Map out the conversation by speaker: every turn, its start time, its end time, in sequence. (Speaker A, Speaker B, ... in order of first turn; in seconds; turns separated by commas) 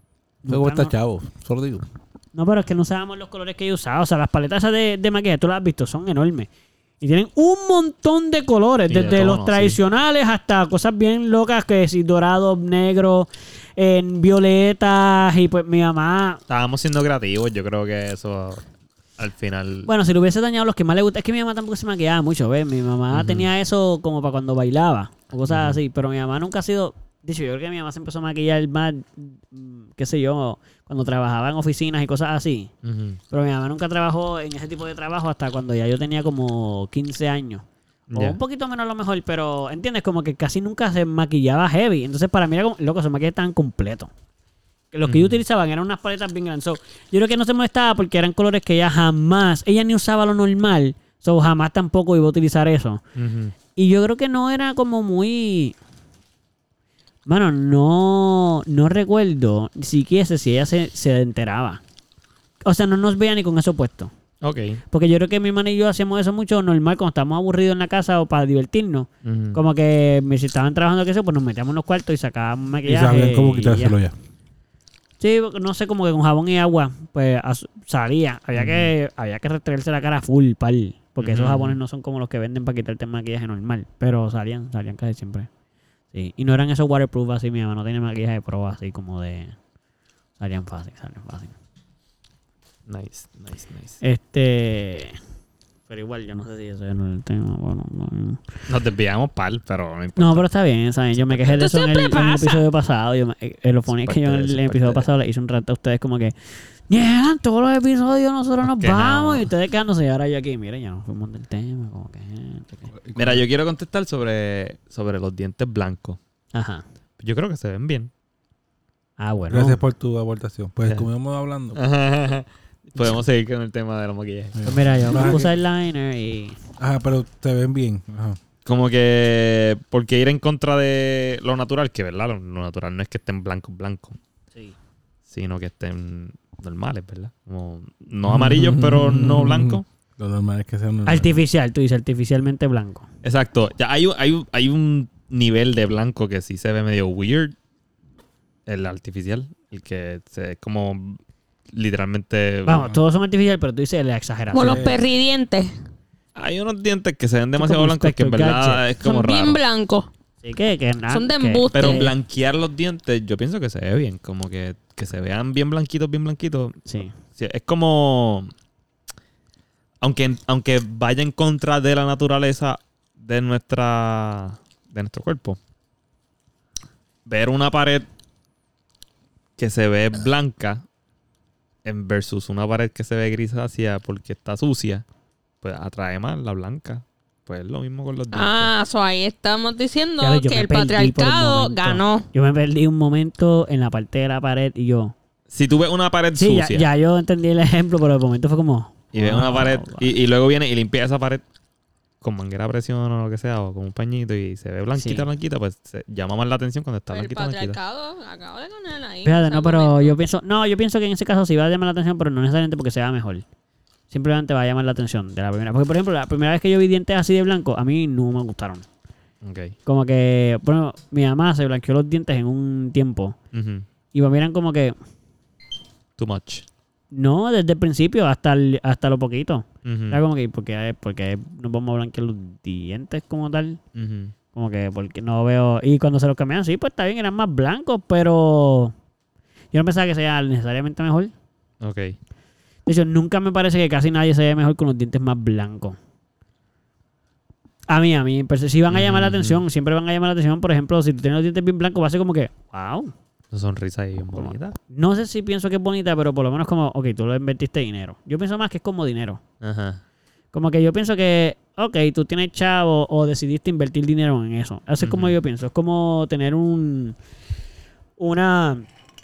Speaker A: 0.4-0.9, Speaker B: 0.5-1.9, Speaker A: 2.3-16.4, Speaker C: 8.9-9.8, Speaker C: 16.5-18.6, Speaker C: 19.2-19.9, Speaker A: 19.9-32.7, Speaker C: 23.1-23.5, Speaker C: 25.5-25.8, Speaker C: 32.8-33.2, Speaker A: 33.3-44.1, Speaker C: 38.1-38.4, Speaker A: 44.9-53.0, Speaker C: 45.0-45.4, Speaker C: 53.1-53.5, Speaker A: 53.8-55.8, Speaker A: 57.3-61.8, Speaker A: 62.6-64.1, Speaker C: 64.4-64.8, Speaker A: 64.9-74.0, Speaker C: 69.2-69.6, Speaker B: 72.8-74.1, Speaker A: 75.2-85.5, Speaker C: 78.5-78.9, Speaker C: 81.2-81.8, Speaker A: 86.1-89.6, Speaker A: 90.4-91.5, Speaker C: 92.9-94.0, Speaker A: 94.0-95.2, Speaker A: 95.9-98.4, Speaker C: 98.7-100.5, Speaker A: 100.2-112.9, Speaker D: 101.5-102.7, Speaker C: 103.9-105.1, Speaker C: 108.6-109.5, Speaker B: 112.9-113.5, Speaker C: 113.2-116.2, Speaker A: 116.5-116.8, Speaker C: 117.2-118.1, Speaker A: 119.2-119.8, Speaker B: 119.5-121.8, Speaker C: 121.7-124.6, Speaker B: 124.6-125.5, Speaker A: 124.6-126.6, Speaker C: 125.1-125.4, Speaker B: 126.8-128.4, Speaker C: 128.7-134.2, Speaker C: 135.3-139.9, Speaker B: 138.2-141.4, Speaker A: 141.1-143.1, Speaker C: 143.2-147.6, Speaker C: 148.7-151.2, Speaker C: 151.7-153.0, Speaker A: 152.7-155.0, Speaker D: 154.5-155.7, Speaker B: 154.6-154.9, Speaker C: 156.4-159.6, Speaker A: 157.6-158.8, Speaker D: 159.0-160.1, Speaker A: 160.4-162.1, Speaker D: 161.1-162.1, Speaker C: 161.7-166.8, Speaker A: 166.9-167.1, Speaker C: 167.3-168.5, Speaker C: 170.0-175.6, Speaker C: 177.3-178.1, Speaker C: 179.6-180.8, Speaker C: 181.8-185.1, Speaker C: 185.6-188.7, Speaker D: 188.3-192.3, Speaker A: 190.2-195.1, Speaker C: 195.5-196.9, Speaker A: 196.3-200.2, Speaker C: 199.1-201.4, Speaker C: 202.2-207.8, Speaker A: 204.9-205.3, Speaker D: 207.1-210.2, Speaker A: 209.2-213.4, Speaker A: 214.1-218.9, Speaker C: 219.4-219.8, Speaker A: 219.9-223.4, Speaker C: 223.5-223.9, Speaker A: 224.1-225.0, Speaker C: 226.2-226.7, Speaker A: 227.1-233.8, Speaker C: 229.8-230.2, Speaker C: 233.9-234.3, Speaker A: 234.5-238.9, Speaker A: 239.7-241.3, Speaker C: 241.8-242.2, Speaker A: 242.9-246.0, Speaker A: 247.9-253.1, Speaker C: 248.9-249.6, Speaker C: 253.5-254.8, Speaker A: 254.3-259.4, Speaker C: 259.6-260.0, Speaker A: 260.5-267.2, Speaker C: 265.0-265.4, Speaker A: 268.2-268.9